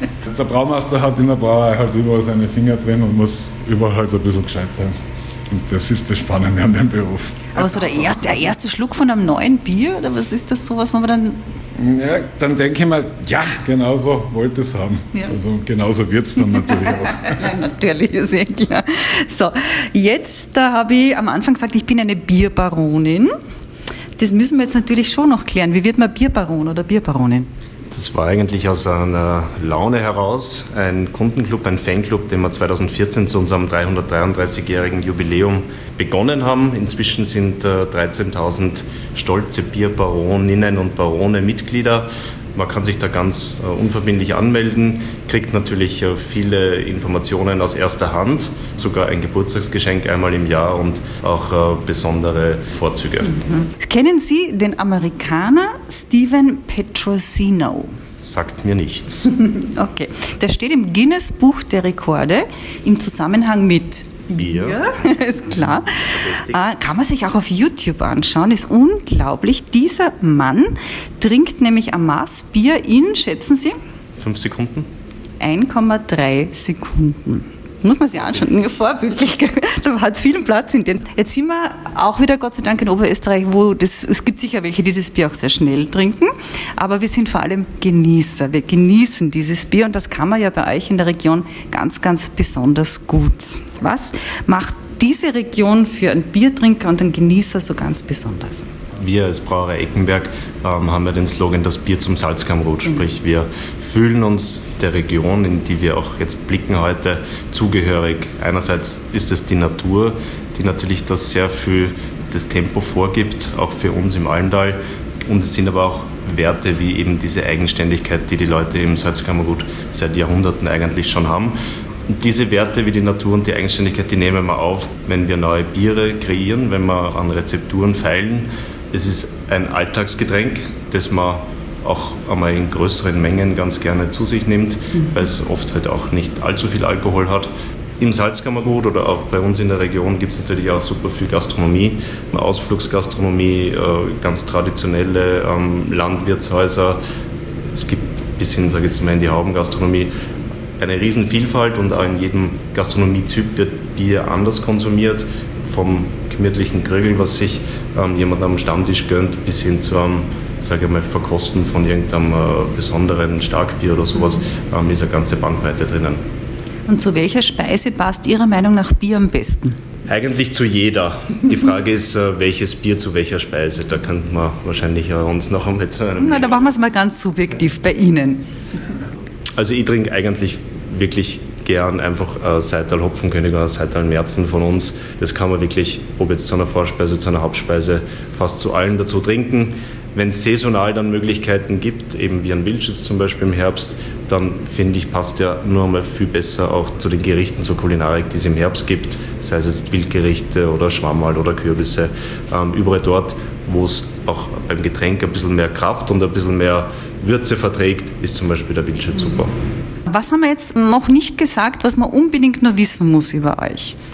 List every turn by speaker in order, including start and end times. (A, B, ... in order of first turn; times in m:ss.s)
0:00.2-0:07.6 A
0:07.6-0:11.4 B
0:11.8-0:17.5 A
0:17.0-0:23.3 B
0:24.2-0:27.5 B
0:27.9-0:53.3 C
0:53.4-0:57.9 B
0:58.2-0:59.3 C
0:59.3-1:13.8 B
1:04.4-1:05.1 C
1:05.9-1:06.6 C
1:14.2-1:14.9 C
1:15.4-1:38.7 B
1:39.0-2:27.0 C
2:27.7-2:30.1 C
2:30.8-2:46.2 C
2:46.9-2:49.8 B
2:50.1-2:56.7 C
2:56.2-2:58.4 B
2:59.6-3:29.5 C
3:30.1-3:34.0 B